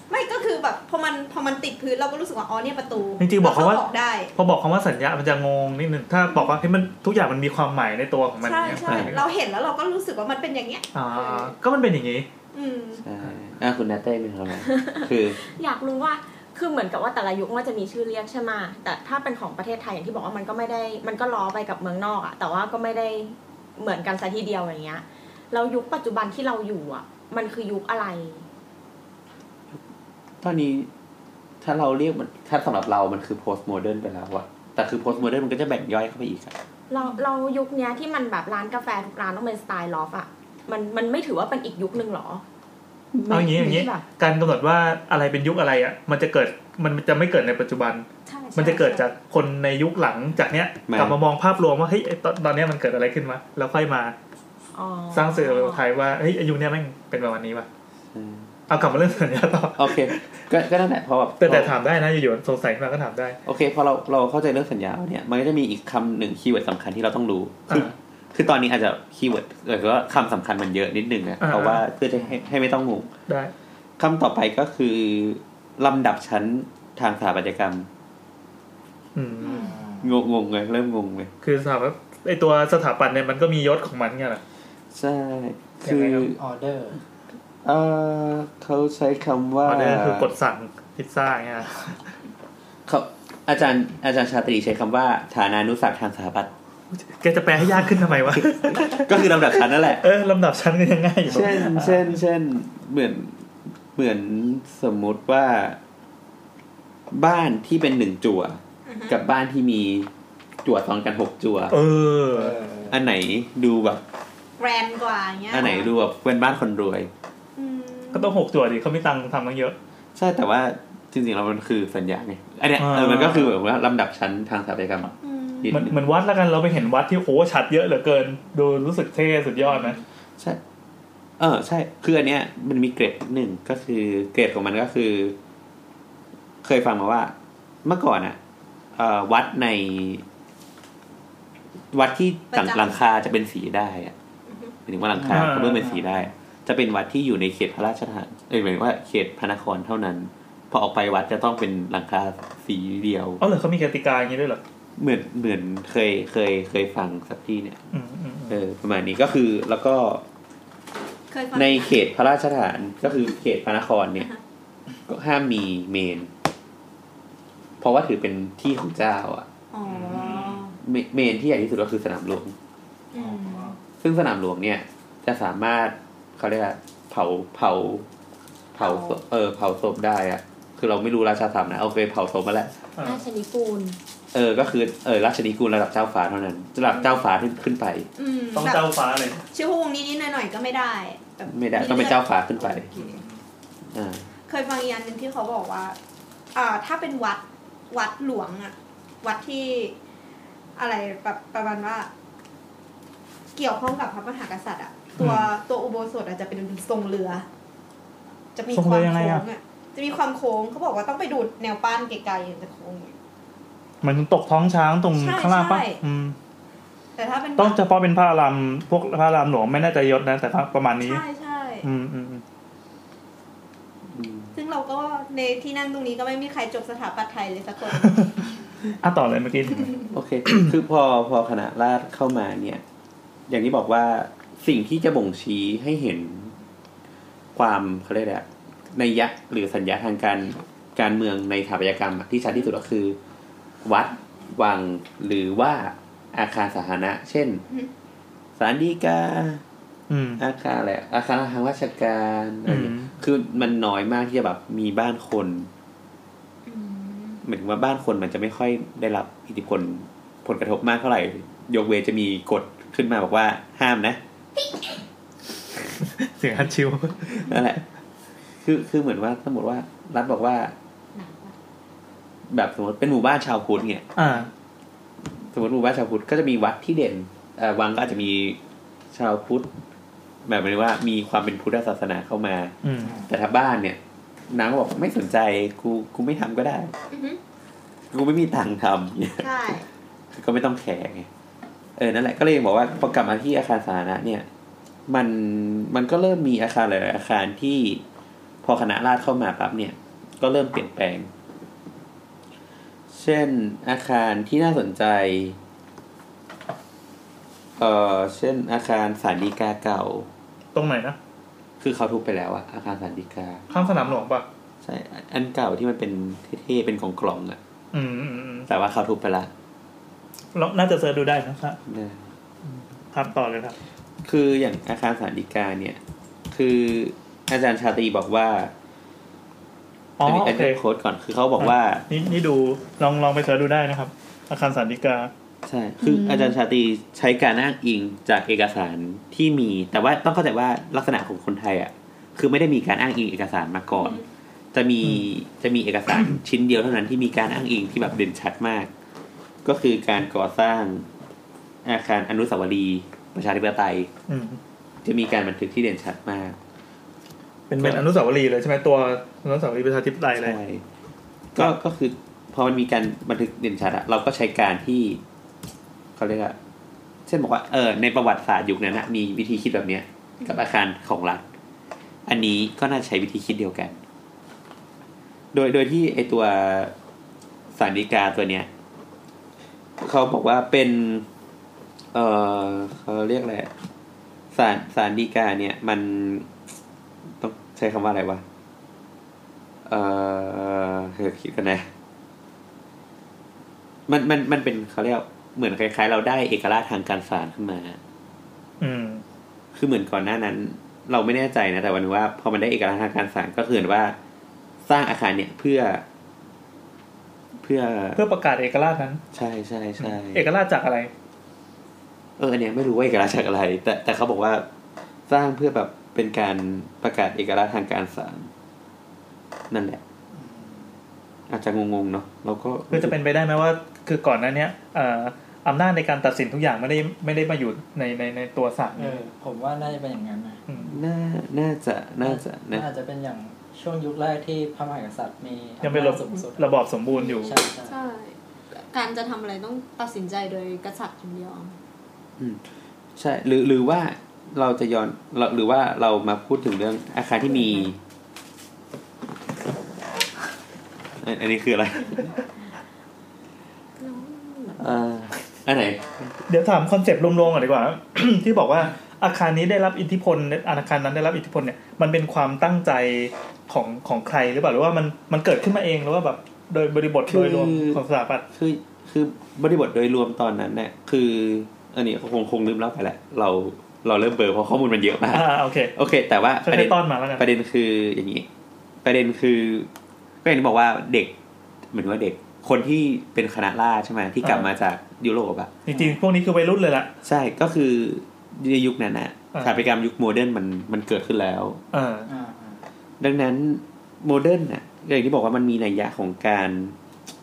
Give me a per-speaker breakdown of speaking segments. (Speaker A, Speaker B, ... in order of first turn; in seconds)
Speaker A: 0.1-4.3, 8.4-11.5, 12.5-13.0, 48.5-49.0, 108.9-109.2, 114.6-115.9, 117.6-118.4, 125.2-125.8, 142.5-143.0, 144.5-144.7, 161.3-162.0, 169.7-170.7, 173.1-173.8, 178.8-179.2, 188.2-188.9, 189.5-193.2, 194.5-196.0, 196.5-199.9, 200.8-202.1, 203.6-207.4, 208.6-213.1, 215.2-216.0, 217.2-217.8, 221.0-221.9, 224.5-228.2, 256.7-257.3, 289.4-289.8, 313.7-314.1
Speaker B: 3.2-9.3, 10.9-12.3, 43.3-54.1, 55.1-57.7, 58.7-60.4, 61.4-63.4, 71.4-71.8, 79.2-79.7, 81.4-84.4, 85.8-86.3, 89.7-92.1, 96.9-102.2, 111.7-112.6, 118.1-119.8, 122.8-123.5, 125.7-130.0, 145.3-145.9, 153.4-154.6, 157.9-158.6, 169.9-170.6, 183.0-183.2, 188.6-189.4, 192.9-193.4, 205.2-205.5, 208.7-209.4, 214.0-216.4, 217.6-221.2, 221.8-222.4, 227.9-228.4, 228.9-230.7, 250.1-250.4, 252.7-253.1, 266.0-267.6, 274.2-274.5, 282.8-283.2, 310.8-311.2, 313.7-314.5, 317.9-318.7, 320.6-321.8, 322.7-323.8, 330.2-330.8, 331.6-335.3, 345.0-345.3, 354.3-354.6, 357.7-360.6, 398.8-399.2, 408.2-409.2, 410.0-411.1, 422.9-429.2, 430.7-430.9, 435.8-437.6, 456.5-468.5, 475.3-475.9, 476.6-477.5, 484.4-484.7, 485.9-487.1, 489.5-489.8, 491.9-492.3
Speaker C: 8.9-9.2, 13.0-15.4, 30.4-30.9, 31.6-36.6, 50.9-51.2, 58.1-58.5, 59.8-61.7, 63.5-73.1, 74.0-77.9, 80.0-81.3, 84.9-86.4, 87.6-90.3, 92.9-96.5, 97.8-100.0, 101.3-105.8, 107.1-110.1, 110.6-111.8, 112.9-114.0, 115.5-117.1, 120.2-126.0, 131.4-135.4, 136.6-137.3, 137.8-138.4, 138.9-140.2, 141.9-144.1, 144.9-153.4, 155.0-157.8, 158.5-160.2, 161.5-164.3, 165.1-166.3, 167.8-172.6, 174.0-178.1, 178.8-182.8, 184.3-188.1, 191.5-192.9, 193.9-194.3, 224.1-224.5, 230.1-232.8, 233.5-236.6, 237.6-243.2, 243.8-247.6, 248.6-249.6, 250.4-255.7, 257.4-264.2, 267.4-267.8, 268.6-270.7, 272.5-274.1, 275.5-278.6, 279.1-279.7, 280.4-282.8, 283.3-284.0, 284.5-286.9, 288.1-289.5, 290.3-291.3, 292.0-294.5, 295.1-298.0, 298.6-301.3, 303.1-305.6, 307.8-310.3, 311.8-313.7, 314.8-317.6, 318.7-319.5, 321.9-322.3, 324.2-326.0, 326.5-328.7, 330.2-332.1, 335.6-344.2, 344.7-348.9, 349.6-351.1, 351.9-354.1, 355.0-356.6, 357.8-358.0, 360.4-360.8, 361.5-365.2, 366.2-366.6, 367.3-371.4, 372.3-374.0, 375.5-376.9, 377.8-378.7, 380.0-381.3, 382.1-383.7, 384.5-386.6, 387.4-388.4, 389.9-391.9, 394.1-398.0, 399.8-404.2, 404.9-406.0, 407.6-408.2, 409.3-410.4, 412.4-414.7, 415.3-418.5, 419.7-420.0, 421.5-423.2, 430.9-432.9, 443.2-448.0, 451.2-452.4, 454.8-456.3, 467.3-468.0, 468.5-478.5, 479.0-479.9, 480.4-481.3, 481.9-485.7, 487.2-491.8, 493.2-497.0
Speaker D: 14.6-28.5, 36.9-42.4, 43.1-44.0, 54.7-55.8, 183.0-184.0, 454.0-454.9
Speaker E: 79.4-80.2, 86.4-87.0, 112.3-113.0, 145.2-146.3, 283.0-283.3, 420.3-421.0, 429.0-430.9, 432.2-436.7, 437.3-438.0, 485.9-486.2, 492.3-492.8
Speaker F: 256.8-257.4, 271.2-271.5, 437.1-441.8